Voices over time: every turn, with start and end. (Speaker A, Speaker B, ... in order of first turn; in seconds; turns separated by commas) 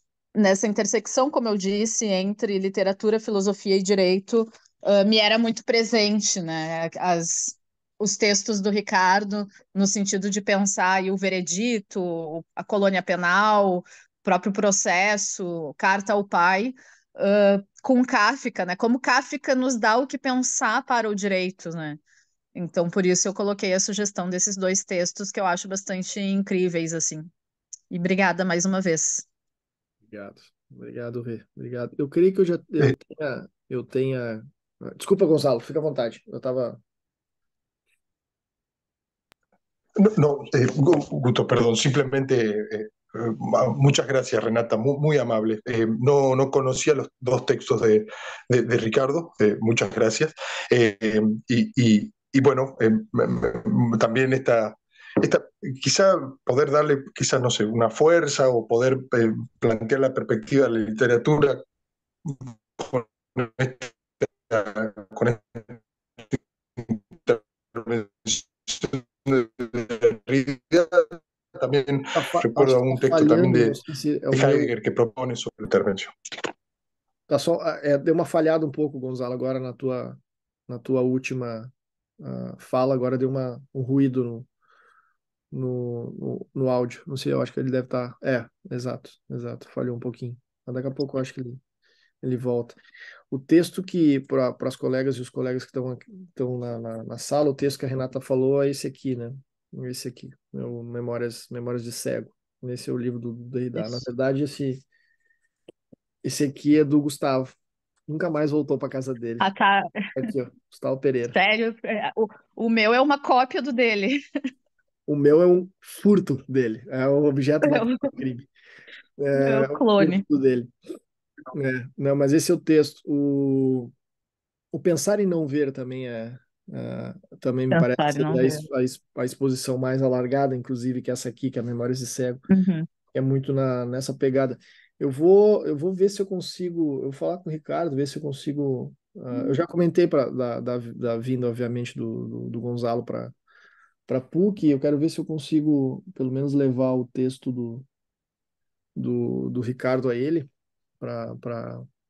Speaker A: 0.3-22.0, Speaker A: 22.6-27.3, Speaker A: 27.9-29.3, Speaker B: 30.1-36.8, Speaker C: 40.0-61.6, Speaker C: 62.2-73.8, Speaker B: 72.2-74.7, Speaker C: 74.3-76.1, Speaker B: 77.3-84.5, Speaker B: 85.5-91.6, Speaker B: 92.2-92.8, Speaker B: 93.3-104.8, Speaker B: 106.2-107.6, Speaker B: 108.1-109.5, Speaker A: 109.4-110.3, Speaker B: 110.2-111.4, Speaker A: 111.3-114.2, Speaker B: 115.1-118.5, Speaker A: 117.7-118.1, Speaker B: 119.2-120.7, Speaker A: 119.3-120.2, Speaker B: 121.5-123.9, Speaker B: 124.7-132.4, Speaker A: 127.7-128.7, Speaker A: 132.5-132.9, Speaker B: 133.1-143.3, Speaker B: 144.1-147.9, Speaker B: 149.0-151.9